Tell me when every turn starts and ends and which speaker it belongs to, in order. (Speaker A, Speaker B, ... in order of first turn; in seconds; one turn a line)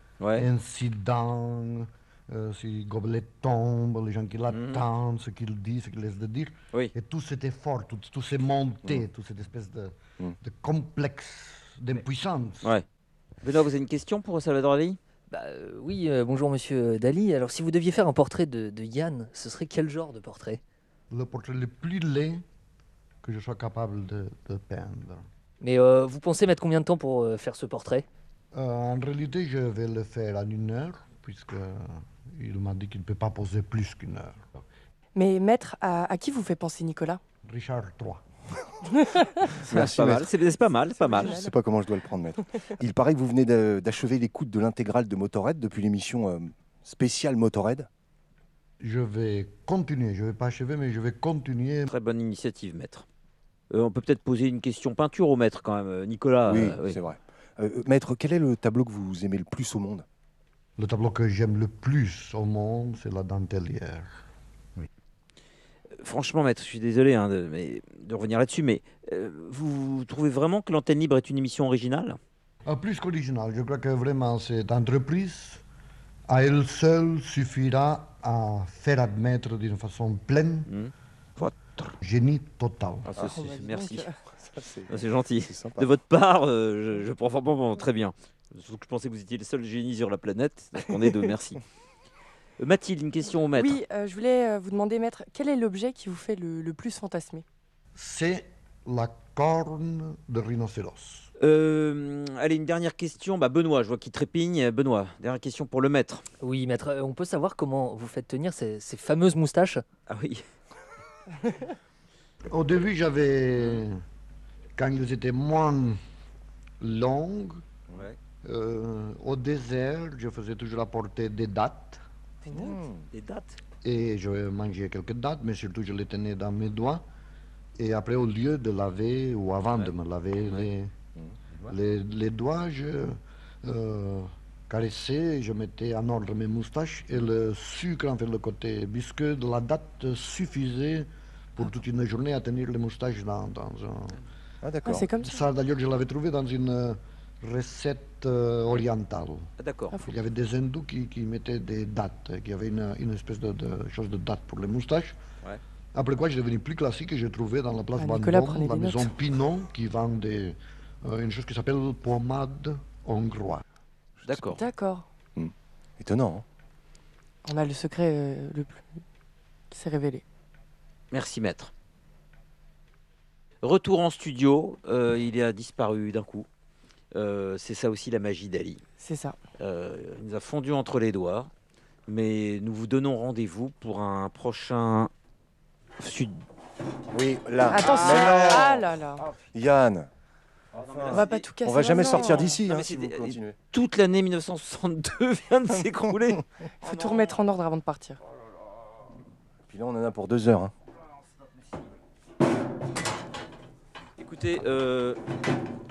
Speaker A: 0.2-0.5
Speaker B: 0.4-12.7
Speaker A: 4.5-4.9
Speaker A: 13.4-15.0
Speaker C: 15.3-20.6
Speaker B: 21.1-22.4
Speaker B: 23.2-25.2
Speaker C: 25.6-28.1
Speaker B: 28.5-34.5
Speaker D: 35.1-37.2
Speaker B: 37.5-38.2
Speaker A: 39.5-41.4
Speaker E: 39.6-40.3
Speaker D: 40.9-41.5
Speaker E: 41.1-47.9
Speaker B: 48.8-51.9
Speaker A: 51.9-53.1
Speaker A: 53.7-57.0
Speaker E: 56.5-60.0
Speaker B: 60.8-64.2
Speaker A: 66.0-72.2
Speaker B: 72.7-75.6
Speaker B: 76.3-80.7
Speaker A: 80.7-82.0
Speaker B: 82.0-83.1
Speaker A: 83.1-84.1
Speaker D: 83.3-84.2
Speaker E: 84.4-85.9
Speaker A: 84.9-91.6
Speaker A: 92.6-93.8
Speaker D: 93.5-97.5
Speaker B: 98.0-101.3
Speaker A: 101.4-106.2
Speaker C: 106.4-109.8
Speaker A: 110.1-110.4
Speaker B: 112.5-114.0
Speaker B: 114.8-116.0
Speaker B: 116.8-117.6
Speaker B: 118.4-122.0
Speaker D: 122.5-122.8
Speaker E: 122.5-123.1
Speaker A: 123.1-123.6
Speaker B: 123.8-127.0
Speaker B: 127.8-130.9
Speaker B: 131.7-144.2
Speaker E: 144.6-145.1
Speaker D: 144.8-145.5
Speaker B: 145.2-149.5
Speaker A: 149.6-150.0
Speaker B: 150.1-155.2
Speaker B: 155.9-163.6
Speaker D: 158.0-159.1
Speaker A: 164.2-164.6
Speaker D: 164.5-165.1
Speaker E: 165.4-166.4
Speaker D: 167.4-168.8
Speaker D: 169.7-170.2
Speaker A: 171.1-171.7
Speaker A: 173.6-176.5
Speaker A: 177.1-178.8
Speaker D: 179.0-179.4
Speaker A: 179.6-181.5
Speaker A: 182.1-185.1
Speaker A: 186.0-186.4
Speaker E: 187.1-188.9
Speaker D: 187.7-189.2
Speaker A: 187.8-188.7
Speaker E: 189.5-190.1
Speaker E: 190.7-193.6
Speaker A: 190.8-197.2
Speaker D: 191.1-192.6
Speaker D: 196.8-198.2
Speaker E: 199.7-200.7
Speaker A: 204.2-205.2